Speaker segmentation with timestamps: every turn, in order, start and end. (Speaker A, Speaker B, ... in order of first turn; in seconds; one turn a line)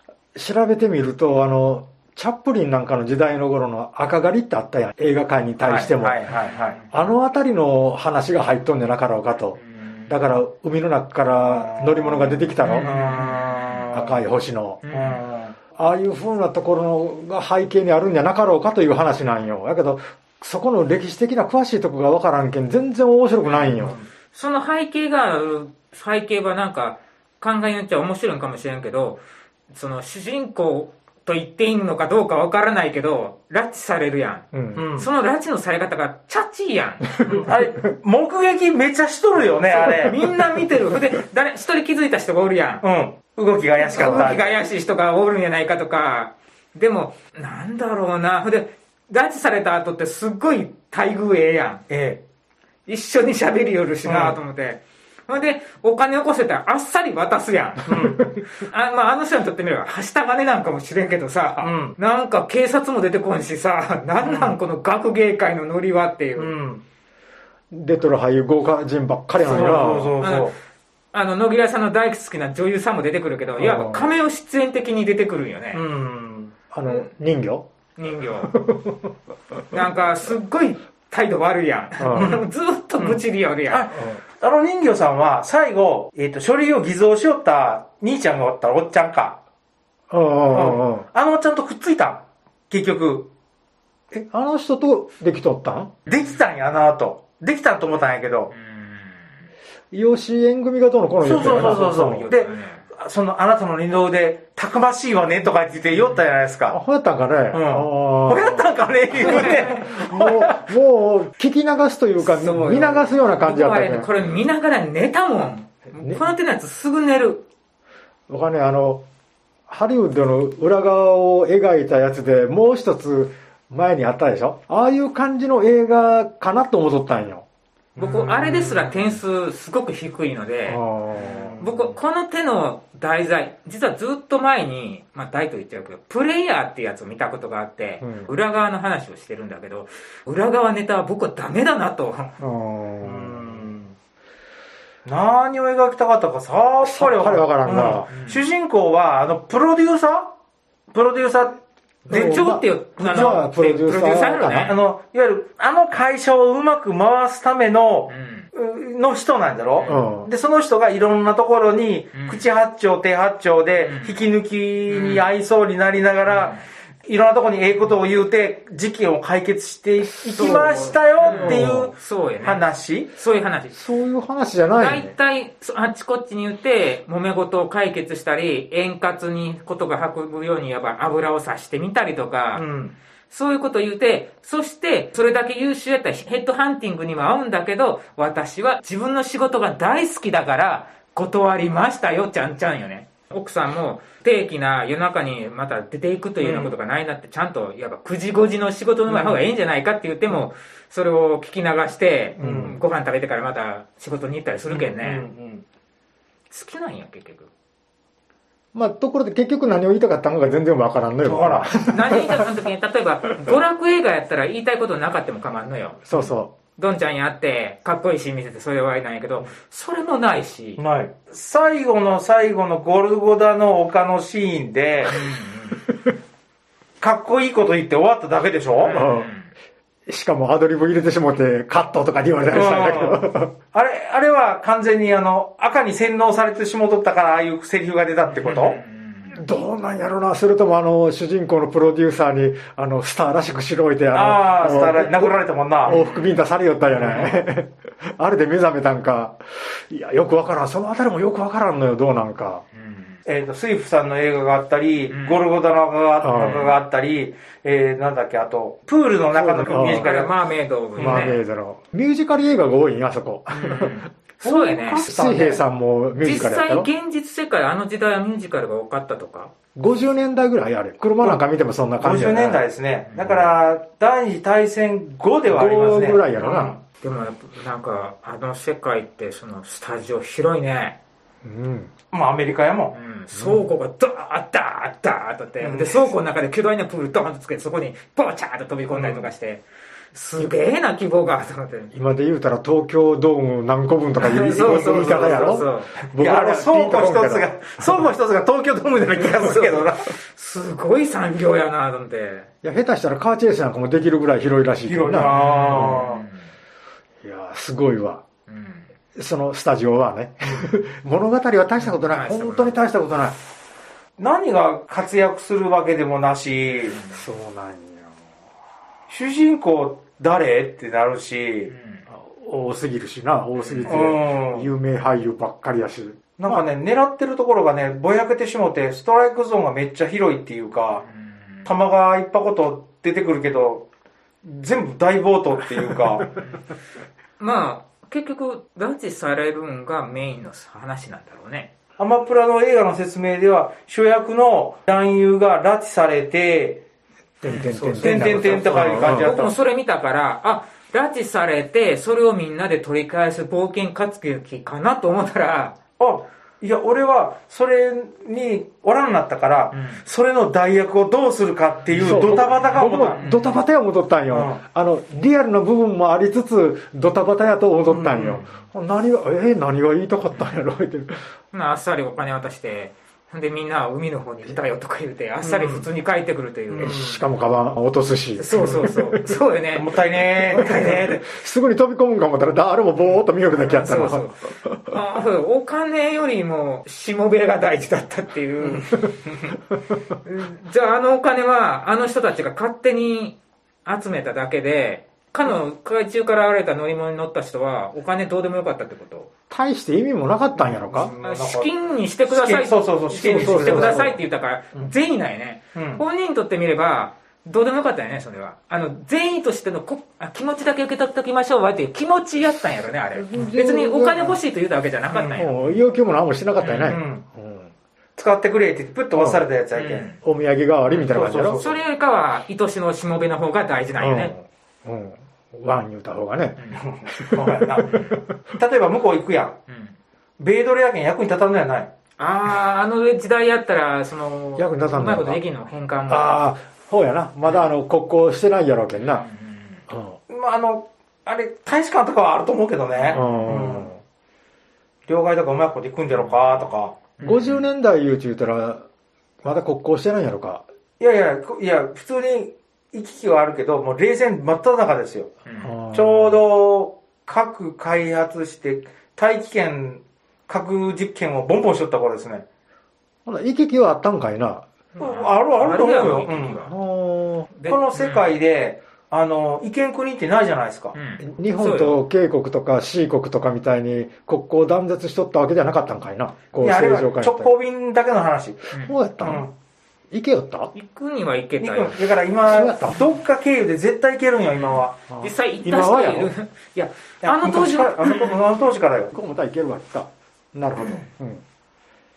Speaker A: 0.3-6.2
Speaker B: 5.6-6.8
Speaker A: 6.9-12.9
Speaker C: 9.8-10.1
Speaker B: 11.4-14.2
Speaker C: 12.6-14.0
Speaker A: 13.9-14.8
Speaker C: 14.8-15.2
Speaker B: 14.9-15.6
Speaker A: 15.8-24.0
Speaker B: 23.7-24.0
Speaker C: 24.3-29.2
Speaker C: 29.7-34.5
Speaker A: 34.5-34.9
Speaker B: 34.7-35.1
Speaker C: 35.0-37.3
Speaker B: 37.2-40.2
Speaker C: 39.7-42.8
Speaker B: 42.8-44.6
Speaker C: 43.8-51.8
Speaker A: 44.0-44.3
Speaker B: 51.9-52.2
Speaker C: 52.9-66.5
Speaker B: 54.0-54.4
Speaker B: 57.9-58.3
Speaker B: 61.6-62.0
Speaker B: 64.2-64.6
Speaker B: 66.4-66.8
Speaker A: 67.7-70.1
Speaker B: 69.4-70.5
Speaker C: 69.5-70.5
Speaker C: 71.1-75.8
Speaker A: 73.6-74.1
Speaker B: 75.7-76.5
Speaker A: 76.7-77.7
Speaker C: 78.0-78.5
Speaker A: 78.5-79.1
Speaker C: 79.7-83.9
Speaker A: 82.0-82.3
Speaker B: 82.1-82.4
Speaker B: 83.0-89.4
Speaker A: 90.1-91.0
Speaker B: 90.5-93.3
Speaker A: 94.1-95.9
Speaker B: 96.1-98.5
Speaker C: 98.5-99.2
Speaker A: 99.9-102.3
Speaker B: 101.2-106.8
Speaker C: 101.3-102.8
Speaker A: 106.7-114.1
Speaker B: 107.5-110.6
Speaker C: 109.2-109.7
Speaker C: 112.2-117.4
Speaker A: 116.0-116.3
Speaker A: 118.3-119.0
Speaker A: 119.7-127.5
Speaker B: 128.0-129.2
Speaker C: 128.0-130.8
Speaker A: 130.7-131.6
Speaker B: 131.1-131.9
Speaker C: 131.6-142.3
Speaker A: 138.0-138.3
Speaker A: 142.4-143.5
Speaker B: 143.0-143.9
Speaker B: 145.1-150.3
Speaker A: 146.8-148.1
Speaker C: 148.1-148.4
Speaker B: 150.9-152.4
Speaker C: 152.1-154.8
Speaker A: 152.1-154.8
Speaker B: 153.0-153.4
Speaker B: 154.6-173.1
Speaker C: 158.1-158.5
Speaker C: 159.8-160.1
Speaker A: 159.9-160.3
Speaker C: 162.1-162.4
Speaker C: 163.8-164.2
Speaker C: 164.9-165.2
Speaker C: 166.3-166.6
Speaker A: 170.0-171.9
Speaker C: 170.3-173.8
Speaker A: 173.7-175.1
Speaker C: 174.7-182.6
Speaker B: 182.5-182.9
Speaker C: 183.3-205.2
Speaker B: 196.4-196.7
Speaker B: 199.1-199.4
Speaker B: 202.4-202.8
Speaker A: 202.4-202.7
Speaker B: 204.7-205.6
Speaker C: 206.5-207.5
Speaker A: 208.7-212.5
Speaker B: 211.2-211.7
Speaker C: 211.9-220.8
Speaker A: 216.1-216.5
Speaker B: 220.8-225.2
Speaker C: 225.1-225.8
Speaker B: 227.0-228.9
Speaker C: 228.8-229.5
Speaker A: 228.9-229.3
Speaker A: 230.1-233.5
Speaker B: 232.5-233.2
Speaker B: 233.7-238.8
Speaker C: 238.3-239.4
Speaker A: 239.3-252.6
Speaker B: 244.1-246.0
Speaker C: 245.9-246.4
Speaker B: 246.9-247.3
Speaker C: 252.7-253.2
Speaker B: 253.2-260.4
Speaker C: 255.1-255.4
Speaker A: 256.2-256.7
Speaker C: 256.3-256.7
Speaker A: 259.3-260.1
Speaker C: 259.7-261.4
Speaker B: 261.0-261.3
Speaker A: 261.0-266.9
Speaker C: 263.5-265.1
Speaker B: 265.0-265.6
Speaker C: 266.2-269.5
Speaker A: 269.8-272.6
Speaker B: 272.0-276.8
Speaker A: 275.5-276.8
Speaker C: 277.0-281.0
Speaker A: 281.4-281.9
Speaker B: 282.1-282.9
Speaker C: 282.9-289.6
Speaker A: 283.3-283.7
Speaker B: 285.6-286.1
Speaker B: 288.9-289.3
Speaker C: 290.1-291.9
Speaker A: 291.9-298.0
Speaker C: 294.2-295.9
Speaker B: 294.2-295.6
Speaker B: 296.2-300.1
Speaker C: 299.4-302.5
Speaker A: 302.6-306.1
Speaker B: 304.9-306.2
Speaker C: 305.2-306.5
Speaker A: 307.2-308.2
Speaker C: 308.5-308.9
Speaker A: 309.1-313.4
Speaker C: 311.8-312.8
Speaker B: 314.2-317.0
Speaker A: 317.1-318.1
Speaker B: 319.1-321.7
Speaker C: 321.7-322.0
Speaker A: 322.1-326.6
Speaker C: 323.6-324.1
Speaker B: 323.9-324.7
Speaker B: 326.4-331.0
Speaker C: 331.1-331.7
Speaker B: 331.6-333.9
Speaker B: 334.4-336.3
Speaker C: 336.4-336.6
Speaker C: 337.4-341.7
Speaker B: 342.0-346.8
Speaker A: 347.4-349.3
Speaker C: 347.4-355.7
Speaker B: 348.0-349.6
Speaker B: 356.0-363.2
Speaker C: 359.7-360.0
Speaker C: 361.9-363.6
Speaker A: 362.0-371.2
Speaker B: 364.3-364.6
Speaker B: 367.9-368.4
Speaker C: 371.5-376.9
Speaker B: 375.4-375.9
Speaker B: 376.7-377.2
Speaker A: 376.8-379.4
Speaker C: 378.4-379.9
Speaker B: 379.8-380.9
Speaker C: 380.5-381.2
Speaker A: 380.5-384.9
Speaker C: 383.6-389.0
Speaker C: 390.2-399.3
Speaker A: 399.5-401.1
Speaker B: 400.6-401.7
Speaker C: 401.2-415.6
Speaker B: 402.3-404.2
Speaker A: 403.2-404.1
Speaker B: 405.7-406.0
Speaker A: 413.1-414.4
Speaker B: 415.1-415.5
Speaker A: 415.4-417.7
Speaker C: 416.6-417.0
Speaker B: 416.8-417.2
Speaker B: 418.2-420.1
Speaker A: 419.1-419.5
Speaker C: 419.8-420.2
Speaker A: 420.2-421.6
Speaker C: 420.9-424.5
Speaker B: 421.1-421.8
Speaker A: 424.0-428.0
Speaker B: 426.8-428.0
Speaker C: 427.9-428.2
Speaker B: 428.5-429.6
Speaker C: 429.7-429.9
Speaker B: 430.4-431.9
Speaker C: 432.2-436.4
Speaker A: 434.6-435.4
Speaker A: 436.1-439.2
Speaker C: 438.9-439.8
Speaker A: 439.9-440.2
Speaker B: 440.3-443.9
Speaker C: 442.9-443.5
Speaker A: 443.1-444.0
Speaker B: 445.1-447.0
Speaker C: 446.2-447.6
Speaker A: 447.2-448.9
Speaker A: 449.4-450.6
Speaker B: 451.0-455.3
Speaker C: 455.4-455.7
Speaker A: 455.6-456.4
Speaker B: 455.9-462.4
Speaker A: 463.2-464.6
Speaker C: 464.9-466.7
Speaker B: 465.0-466.6
Speaker A: 466.6-467.5
Speaker C: 467.6-468.3
Speaker B: 467.7-470.9
Speaker C: 470.9-472.0
Speaker A: 471.2-477.5
Speaker B: 476.6-478.6
Speaker A: 478.7-479.5
Speaker B: 479.2-479.5
Speaker A: 480.1-480.7
Speaker C: 480.7-482.0
Speaker B: 481.6-485.0
Speaker A: 482.4-483.1
Speaker C: 484.5-488.3
Speaker A: 485.1-486.3
Speaker B: 487.2-489.1
Speaker A: 489.1-491.4